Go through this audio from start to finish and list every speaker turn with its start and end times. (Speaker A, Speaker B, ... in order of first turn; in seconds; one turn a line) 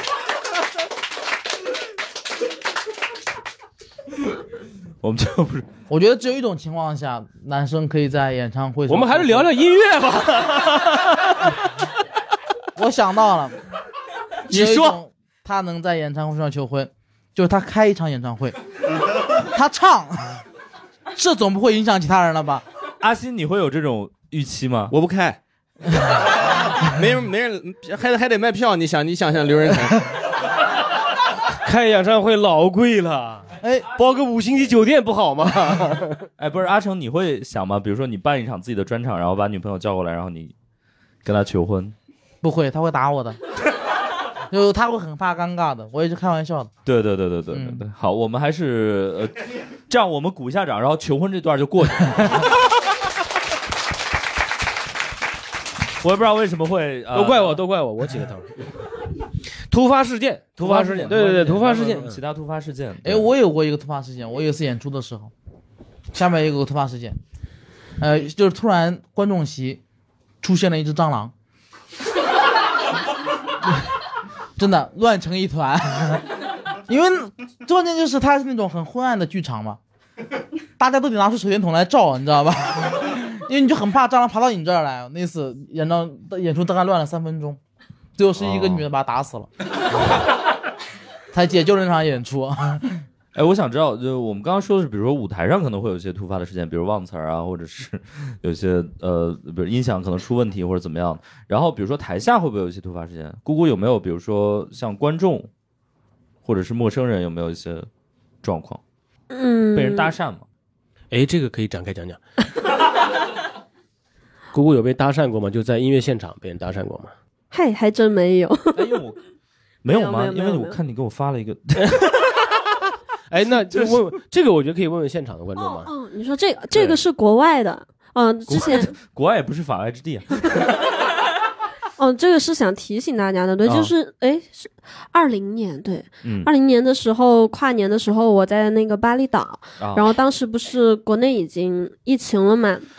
Speaker A: 5.0-5.7
Speaker B: 5.9-9.5
Speaker C: 8.9-11.5
Speaker B: 12.8-13.6
Speaker B: 14.5-18.6
Speaker A: 14.5-15.0
Speaker B: 19.4-20.4
Speaker B: 21.1-22.6
Speaker A: 23.0-24.9
Speaker D: 24.9-25.4
Speaker D: 26.8-30.0
Speaker C: 31.6-36.3
Speaker B: 33.6-33.9
Speaker A: 36.4-40.5
Speaker A: 41.2-42.0
Speaker B: 42.4-43.4
Speaker B: 44.5-46.7
Speaker A: 46.9-52.6
Speaker B: 47.5-47.8
Speaker A: 56.0-57.6
Speaker C: 57.1-58.7
Speaker C: 59.7-62.2
Speaker A: 60.6-63.3
Speaker B: 63.0-65.3
Speaker B: 66.1-67.2
Speaker B: 68.0-69.8
Speaker B: 70.4-71.3
Speaker B: 74.6-76.3
Speaker B: 76.9-79.8
Speaker B: 80.8-87.6
Speaker B: 88.2-89.5
Speaker A: 88.4-88.8
Speaker B: 91.3-93.0
Speaker A: 93.3-105.5
Speaker A: 106.4-107.9
Speaker A: 108.4-108.8
Speaker E: 109.3-110.1
Speaker A: 109.8-110.5
Speaker C: 111.1-112.2
Speaker C: 114.5-117.1
Speaker E: 117.5-119.0
Speaker A: 118.8-119.2
Speaker A: 119.8-122.1
Speaker E: 119.9-120.8
Speaker C: 121.8-122.3
Speaker C: 123.3-125.9
Speaker A: 123.7-124.0
Speaker E: 125.6-128.9
Speaker A: 128.5-130.6
Speaker E: 132.0-142.9
Speaker A: 133.7-133.9
Speaker A: 136.2-136.5
Speaker A: 139.8-140.1